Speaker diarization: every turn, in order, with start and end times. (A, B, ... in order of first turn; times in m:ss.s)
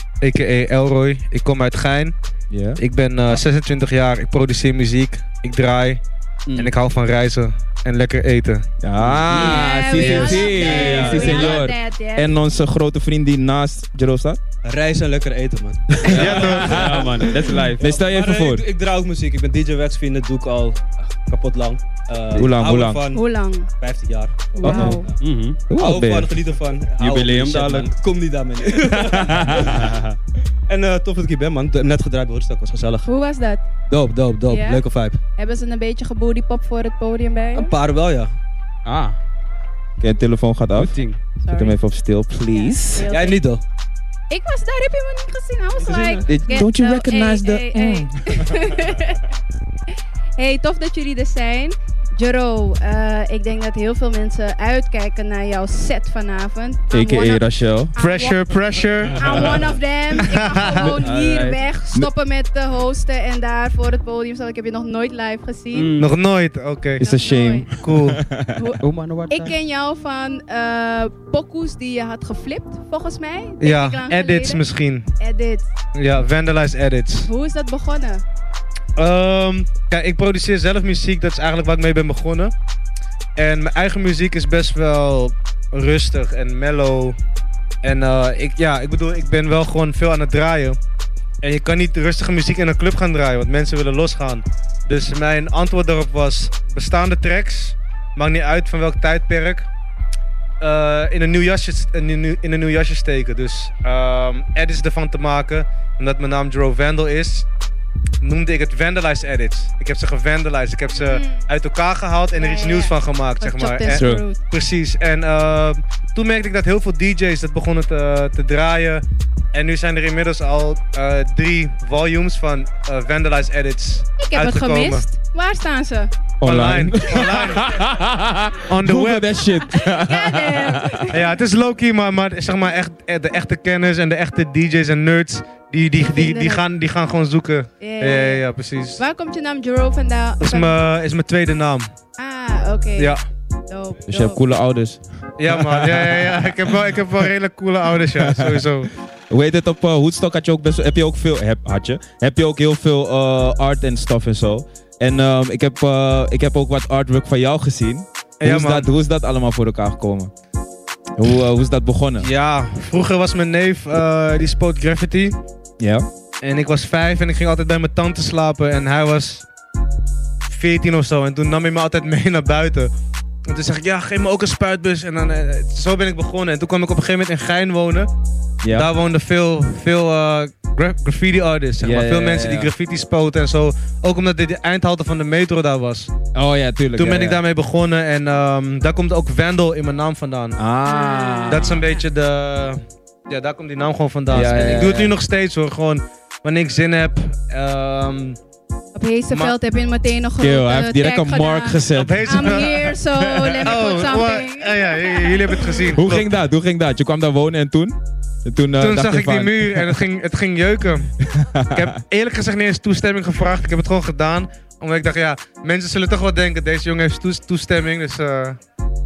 0:00.2-0:02.2 A
0:02.5-0:02.8 B
0:02.8-0:06.0 A
0:06.6-0:08.7 A
0:08.8-0:14.4 B
0:09.0-0:11.6 C
0:09.3-0:12.4 D
0:14.6-0:17.1 E
0:16.1-0:17.0 B
0:16.1-0:17.8 C
0:16.1-0:17.2 A
0:17.5-0:18.6 B
0:17.8-0:23.2 E
0:22.4-0:23.0 B
0:23.1-0:23.7 D
0:23.8-0:25.2 E
0:24.6-0:25.1 D
0:24.6-0:25.0 B
0:24.6-0:25.6 C
0:25.7-0:26.4 B
0:25.8-0:30.0 E
0:27.0-0:27.6 B
0:27.1-0:27.9 C
0:29.0-0:29.6 B
0:29.5-0:30.1 C
0:30.7-0:33.1 E
0:33.0-0:33.6 D
0:33.9-0:35.2 E
0:34.5-0:34.8 D
0:35.4-0:37.7 D
0:37.5-0:38.3 E
0:38.9-0:39.2 C
0:40.0-0:40.9 B
0:40.8-0:41.2 C
0:41.4-0:41.8 D
0:41.5-0:43.1 B
0:42.5-0:43.4 D
0:43.1-0:43.6 E
0:44.3-0:49.2 D
0:45.8-0:46.3 C
0:46.3-0:48.1 B
0:50.4-0:58.4 D
0:56.9-0:57.9 B
0:58.0-1:01.0 A
0:59.1-1:05.9 D
1:00.8-1:01.6 C
1:05.7-1:06.1 C
1:06.0-1:07.1 A
1:07.0-1:07.7 D
1:07.0-1:08.6 B
1:07.8-1:08.2 A
1:08.5-1:15.7 D
1:08.8-1:09.6 C
1:13.6-1:15.1 A
1:15.9-1:17.3 A
1:17.2-1:18.2 D
1:19.0-1:22.5 A
1:23.4-1:27.2 A
1:27.8-1:30.8 A
1:31.4-1:39.7 A
1:40.6-1:47.5 A
1:48.2-2:05.0 A
1:51.0-1:51.4 D
1:52.4-1:54.4 D
1:53.9-1:54.3 B
2:04.2-2:06.1 D
2:06.4-2:11.1 B
2:06.4-2:07.6 A
2:08.7-2:09.3 A
2:09.8-2:11.2 D
2:11.1-2:19.0 A
2:16.0-2:16.6 D
2:17.8-2:18.4 D
2:19.0-2:20.8 D
2:20.4-2:21.9 A
2:22.2-2:23.2 D
2:23.7-2:24.4 D
2:24.1-2:26.4 B
2:25.4-2:28.9 A
2:28.2-2:40.3 B
2:38.4-2:38.9 A
2:41.2-2:42.3 B
2:42.2-2:45.4 A
2:45.8-2:46.1 B
2:46.4-2:49.5 A
2:50.5-2:52.9 A
2:53.5-2:58.1 A
2:58.6-2:58.9 B
2:58.7-3:06.1 A
3:01.8-3:02.7 B
3:06.3-3:07.4 B
3:06.9-3:10.6 A
3:10.6-3:11.7 B
3:10.8-3:12.0 D
3:11.5-3:18.4 A
3:14.3-3:15.2 B
3:19.0-3:25.7 D
3:19.3-3:19.6 A
3:20.4-3:22.6 B
3:21.9-3:26.3 A
3:25.9-3:30.0 B
3:28.8-3:31.1 A
3:31.3-3:32.0 B
3:31.7-3:38.6 A